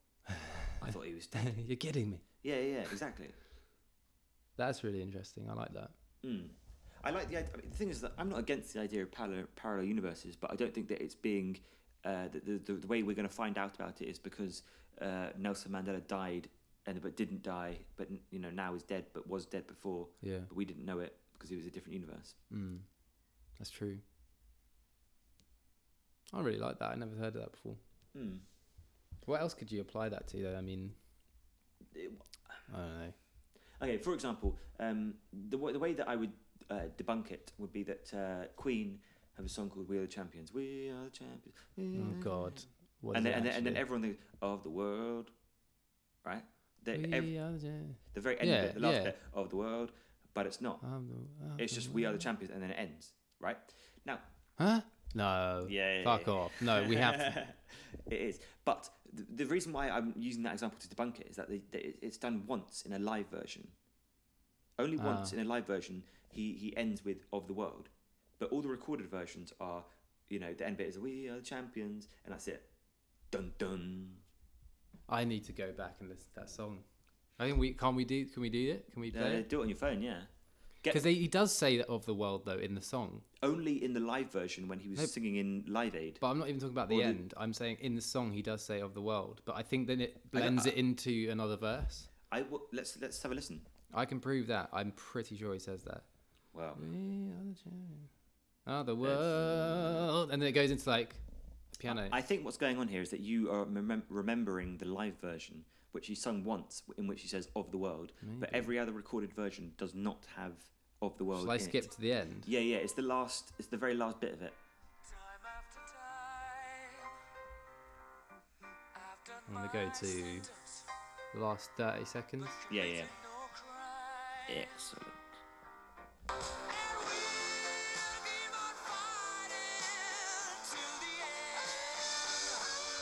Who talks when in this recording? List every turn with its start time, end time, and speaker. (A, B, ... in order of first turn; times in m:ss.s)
0:00.4-0:02.2 A
0:00.8-0:01.5 B
0:02.4-0:03.4 B
0:04.6-0:05.9 A
0:06.2-0:22.4 B
0:20.2-0:20.5 A
0:22.5-0:22.9 A
0:23.6-0:24.0 A
0:26.3-0:27.8 A
0:28.1-0:28.4 B
0:29.2-0:31.0 A
0:31.9-0:32.6 B
0:32.7-0:33.2 A
0:33.8-0:42.6 B
0:41.9-0:43.8 A
0:43.1-0:45.3 B
0:46.2-0:47.4 B
0:46.9-0:49.1 A
0:48.0-0:50.8 B
0:50.8-0:52.3 A
0:51.6-0:54.2 B
0:54.6-0:57.4 A
0:55.6-1:03.8 B
1:04.8-1:12.7 B
1:05.0-1:05.4 A
1:13.3-1:14.2 B
1:15.1-1:16.8 A
1:17.4-1:19.5 A
1:19.1-1:20.3 B
1:20.9-1:23.3 A
1:23.4-1:26.2 B
1:26.2-1:32.1 A
1:26.9-1:27.2 B
1:30.3-1:30.8 B
1:32.3-1:33.7 B
1:33.9-1:36.1 A
1:36.5-1:36.9 B
1:36.8-1:38.1 A
1:38.6-1:42.2 A
1:39.0-1:40.1 B
1:41.9-1:51.9 B
1:48.2-1:48.7 A
1:51.4-1:52.5 A
1:52.4-1:54.6 B
1:55.0-1:57.1 C
1:58.9-2:00.8 C
1:59.5-2:00.5 A
2:01.3-2:02.6 A
2:02.6-2:04.8 C
2:02.7-2:03.1 B
2:04.5-2:05.2 B
2:06.7-2:12.8 C